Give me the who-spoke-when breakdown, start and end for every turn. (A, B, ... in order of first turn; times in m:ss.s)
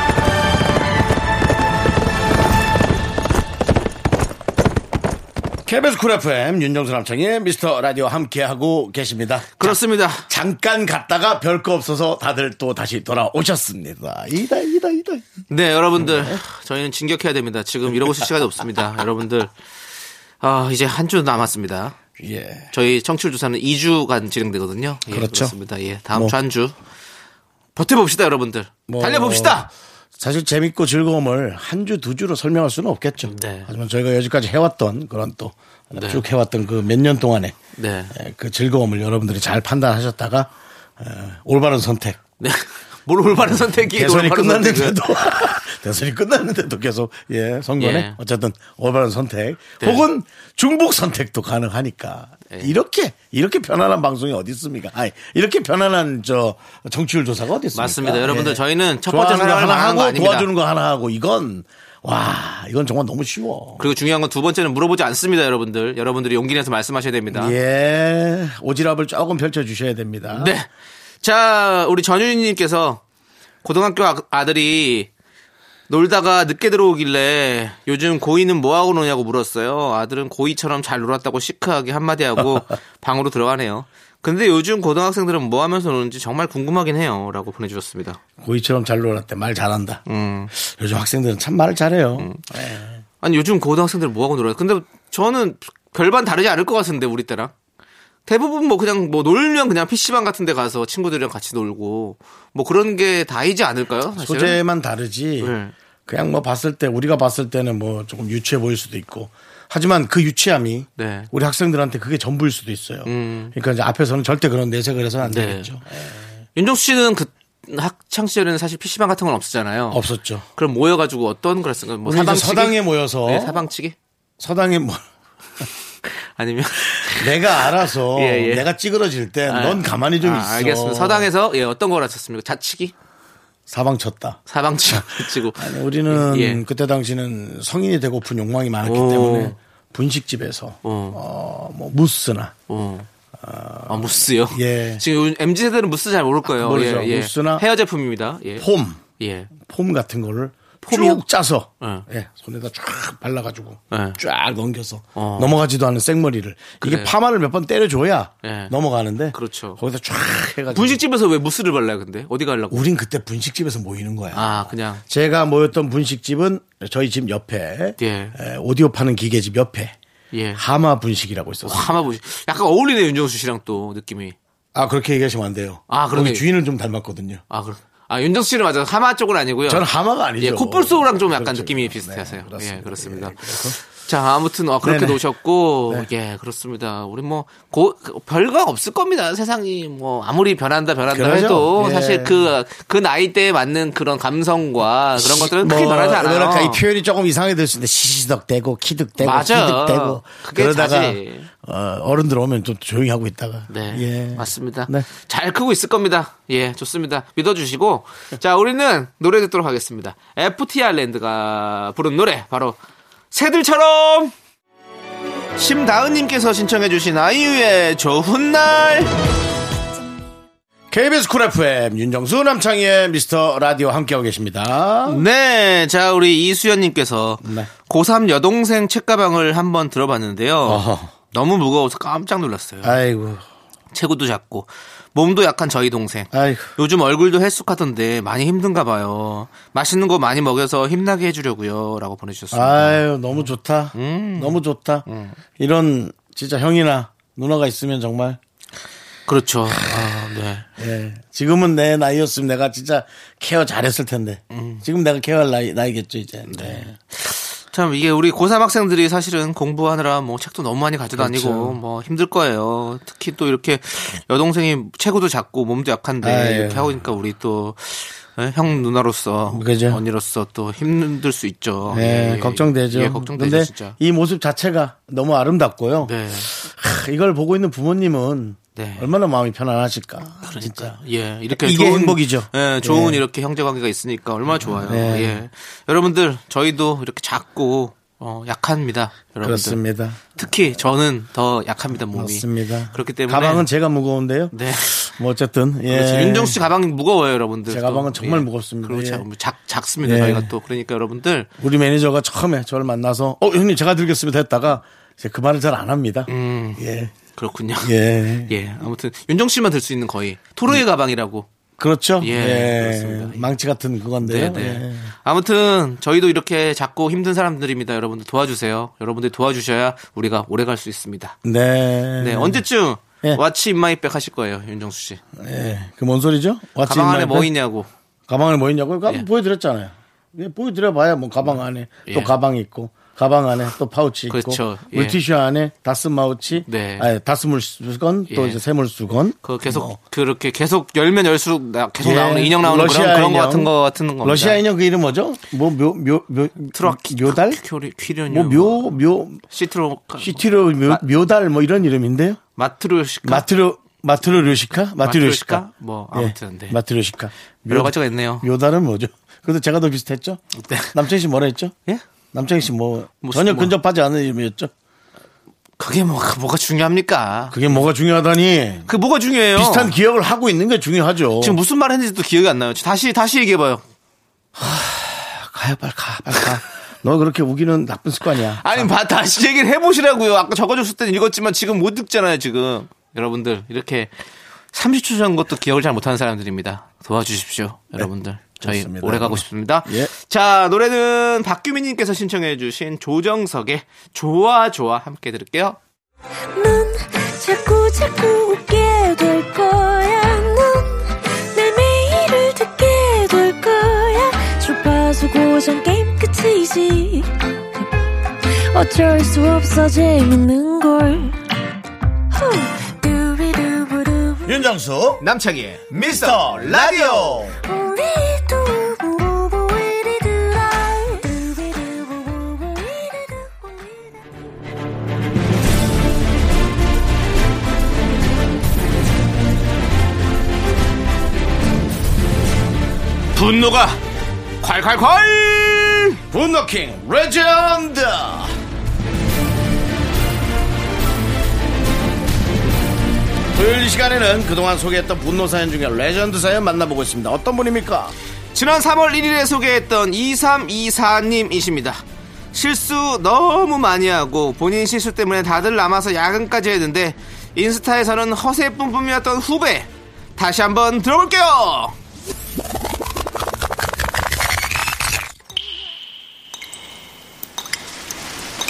0:05.7-0:15.3 A
0:09.6-0:10.3 B
0:15.5-0:19.5 B
0:16.0-0:16.4 A
0:20.4-0:22.0 B
0:22.2-0:22.7 A
0:22.7-0:26.8 B
0:25.1-0:25.6 A
0:27.8-0:29.7 B
0:28.9-0:29.6 A
0:30.2-0:37.6 A
0:33.2-0:33.7 B
0:36.0-0:36.2 B
0:37.8-0:38.1 B
0:38.1-0:42.2 A
0:42.4-0:45.0 B
0:43.5-1:03.8 A
0:47.8-0:48.2 B
0:49.8-0:50.0 B
0:57.8-1:00.5 B
1:03.8-1:07.6 B
1:07.3-1:10.5 A
1:10.3-1:10.7 B
1:11.2-1:13.0 B
1:13.6-1:15.1 B
1:15.9-1:28.2 B
1:28.4-1:30.0 A
1:30.1-1:30.5 B
1:30.5-1:33.0 A
1:33.2-1:37.5 B
1:38.3-1:44.6 B
1:44.2-1:45.6 A
1:45.4-1:45.7 B
1:46.1-1:56.2 A
1:51.0-1:51.3 B
1:53.0-1:53.5 B
1:55.2-1:55.7 B
1:56.6-2:00.0 B
1:59.9-2:00.4 A
2:00.6-2:04.0 B
2:02.0-2:03.6 A
2:04.4-2:05.0 A
2:06.4-2:08.6 B
2:07.1-2:11.3 A
2:09.5-2:12.9 B
2:13.7-2:22.5 A
2:14.5-2:16.6 B
2:18.8-2:19.6 B
2:20.8-2:21.2 B
2:22.7-2:23.1 B
2:23.3-2:25.0 A
2:23.9-2:28.6 B
2:26.5-2:27.6 A
2:28.6-2:29.0 A
2:29.2-2:29.5 B
2:29.6-2:41.0 A
2:30.8-2:31.2 B
2:33.9-2:34.2 B
2:35.2-2:35.6 B
2:36.8-2:37.2 B
2:38.4-2:38.7 B
2:39.3-2:39.8 B
2:40.7-2:42.8 B
2:42.7-2:50.0 A
2:44.3-2:45.0 B
2:48.0-2:48.4 B
2:50.3-2:50.6 B
2:50.6-2:51.9 A
2:51.6-2:54.4 B
2:54.7-2:57.4 A
2:55.9-2:56.5 B
2:57.5-2:59.8 B
2:59.7-3:03.8 A
3:00.4-3:16.8 B
3:04.8-3:05.2 A
3:11.1-3:12.5 A
3:15.2-3:25.1 A
3:19.2-3:21.5 B
3:23.7-3:32.8 B
3:33.3-3:34.3 B
3:35.6-3:39.1 B
3:40.9-3:45.2 A
3:45.1-3:53.0 B
3:47.4-3:47.7 A
3:50.6-3:51.1 A
3:52.8-3:53.4 A
3:53.9-4:05.4 B
3:56.3-3:56.7 A
4:02.5-4:05.1 A
4:05.6-4:08.4 A
4:09.3-4:10.6 B
4:09.7-4:10.0 A
4:10.8-4:17.0 A
4:14.5-4:14.8 B
4:16.5-4:34.0 B
4:21.1-4:21.8 A
4:26.2-4:26.9 A
4:29.5-4:30.0 A
4:31.9-4:41.0 A
4:36.0-4:36.5 B
4:38.8-4:39.1 B
4:40.4-4:49.8 B
4:41.5-4:43.2 A
4:44.6-4:45.4 A
4:49.4-4:50.2 A
4:50.3-4:53.7 B
4:52.1-4:56.6 A
4:54.5-4:55.0 B
4:55.9-5:01.5 B
4:57.7-4:59.2 A
5:00.0-5:00.5 A
5:01.6-5:07.2 A
5:06.3-5:06.8 B
5:07.4-5:07.9 B
5:07.8-5:08.5 A
5:08.5-5:11.5 B
5:11.8-5:15.1 A
5:12.2-5:13.5 B
5:14.2-5:21.4 B
5:21.4-5:22.6 A
5:22.2-5:25.2 B
5:25.4-5:27.5 A
5:26.8-5:27.9 B
5:28.3-5:40.0 A
5:32.1-5:32.4 B
5:34.3-5:35.2 B
5:36.6-5:37.1 B
5:38.3-5:38.6 B
5:39.4-5:44.6 B
5:42.0-5:43.7 A
5:44.2-5:47.6 A
5:46.7-5:49.0 B
5:48.3-5:49.4 A
5:49.5-5:51.0 B
5:50.2-5:52.4 A
5:52.6-5:53.5 B
5:53.2-6:01.7 A
5:55.0-5:56.8 B
5:57.7-5:58.5 B
6:00.6-6:01.0 B
6:02.3-6:04.7 A
6:03.2-6:03.8 B
6:05.8-6:07.8 B
6:07.5-6:08.9 A
6:08.9-6:10.0 B
6:09.6-6:11.6 A
6:11.4-6:13.8 B
6:14.6-6:18.9 A
6:18.6-6:24.1 B
6:24.7-6:35.8 B
6:28.6-6:30.1 A
6:36.6-6:47.8 C
6:48.7-6:51.4 C
6:52.3-6:54.5 C
6:54.5-6:55.2 A
6:55.2-6:57.5 B
6:55.9-6:57.6 A
6:57.7-7:04.1 C
7:13.4-7:14.0 B
7:14.6-7:16.2 B
7:16.3-7:18.6 A
7:23.5-7:28.1 A
7:28.6-7:32.0 B
7:32.5-7:42.0 B